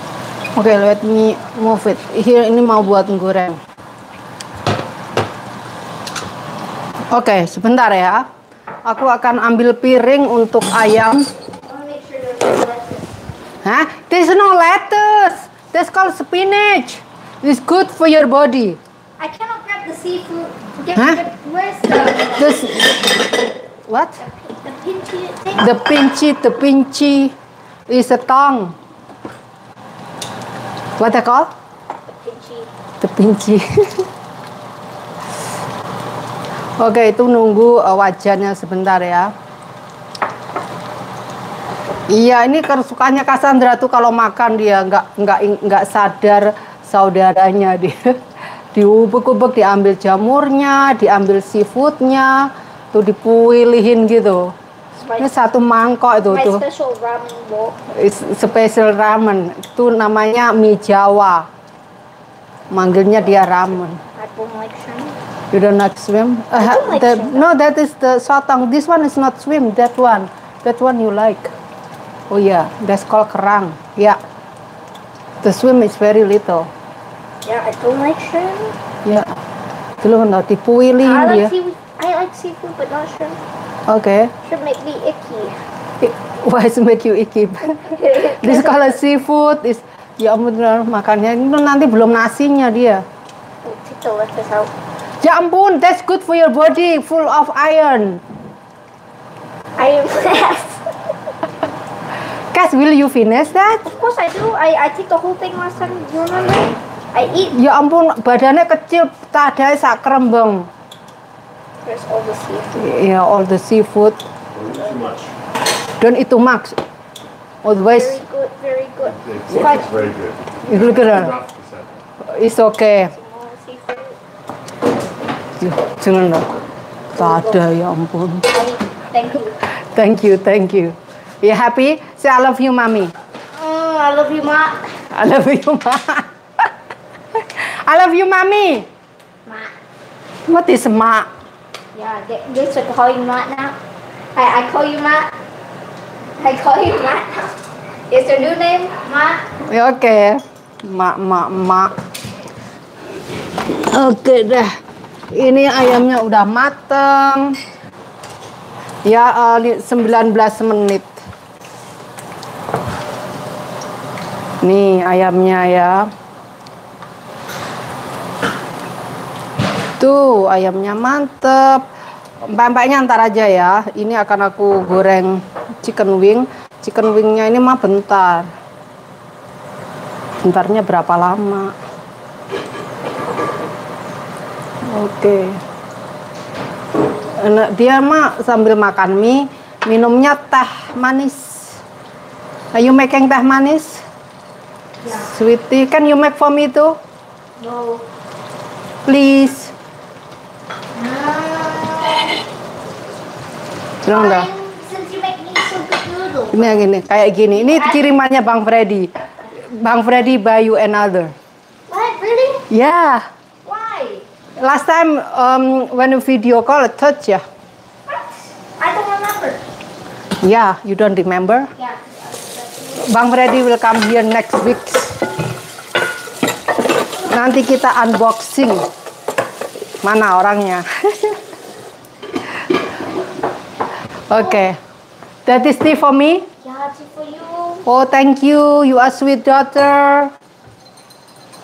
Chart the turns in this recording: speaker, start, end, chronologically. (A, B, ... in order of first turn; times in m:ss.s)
0:00.6-0:03.6 A
0:07.1-0:08.3 A
0:08.8-0:11.3 A
0:11.6-0:13.1 B
0:13.6-0:18.8 A
0:19.2-0:22.6 B
0:20.9-0:21.2 A
0:22.4-0:22.9 A
0:23.9-0:24.2 A
0:24.2-0:25.6 B
0:25.6-0:27.3 A
0:27.9-0:28.8 A
0:31.0-0:31.5 A
0:32.2-0:32.7 B
0:33.0-0:34.0 A
0:36.8-0:39.3 A
0:42.1-0:48.2 A
0:48.7-0:54.5 A
0:55.0-0:55.3 B
0:55.2-0:56.6 A
0:56.3-0:57.7 B
0:57.9-1:01.5 A
1:02.7-1:04.0 A
1:04.1-1:05.2 B
1:05.5-1:11.5 A
1:06.6-1:07.5 B
1:12.3-1:14.2 A
1:15.4-1:16.7 A
1:17.4-1:18.7 B
1:19.0-1:19.3 A
1:20.0-1:21.5 A
1:21.0-1:23.4 B
1:23.9-1:24.3 A
1:24.4-1:25.6 B
1:26.0-1:33.0 A
1:27.8-1:28.8 B
1:33.6-1:34.7 B
1:35.2-1:38.2 A
1:39.8-1:40.8 B
1:42.5-1:43.9 A
1:43.9-1:47.5 B
1:46.2-1:46.7 C
1:47.5-1:50.7 A
1:51.8-1:52.8 B
1:52.8-1:54.2 A
1:54.5-1:55.3 C
1:56.0-1:56.8 A
1:57.6-1:58.2 A
1:57.9-1:59.9 B
1:59.0-2:01.9 C
2:00.6-2:01.3 A
2:02.2-2:03.1 A
2:03.1-2:04.2 B
2:05.6-2:06.5 A
2:07.1-2:08.5 A
2:07.2-2:07.6 B
2:08.5-2:09.5 B
2:09.9-2:13.1 A
2:13.5-2:14.8 B
2:15.1-2:16.3 A
2:17.6-2:18.9 A
2:19.4-2:19.7 B
2:20.5-2:21.3 A
2:21.9-2:23.8 B
2:24.3-2:25.3 B
2:26.4-2:27.5 B
2:28.1-2:29.4 B
2:29.7-2:31.9 A
2:33.7-2:34.8 A
2:35.3-2:37.6 A
2:39.0-2:41.1 A
2:44.6-2:46.1 A
2:50.0-2:51.8 A
2:52.4-2:58.5 A
3:00.4-3:01.7 A
3:04.9-3:05.6 A
3:07.4-3:11.8 A
3:12.7-3:14.0 A
3:15.2-3:17.0 A
3:17.6-3:18.0 B
3:19.0-3:19.7 A
3:20.9-3:22.4 B
3:24.0-3:24.5 A
3:24.1-3:26.6 B
3:26.5-3:29.1 A
3:27.6-3:28.1 B
3:29.7-3:31.3 A
3:31.9-3:32.6 B
3:32.7-3:33.2 A
3:33.6-3:34.2 B
3:34.6-3:37.4 A
3:38.8-3:39.6 B
3:40.4-3:41.7 A
3:41.8-3:43.0 B
3:43.0-3:45.1 A
3:47.3-3:48.8 A
3:50.0-3:51.4 A
3:54.3-3:54.8 A
3:55.4-3:56.4 A
3:56.6-3:57.8 B
3:57.8-4:00.3 A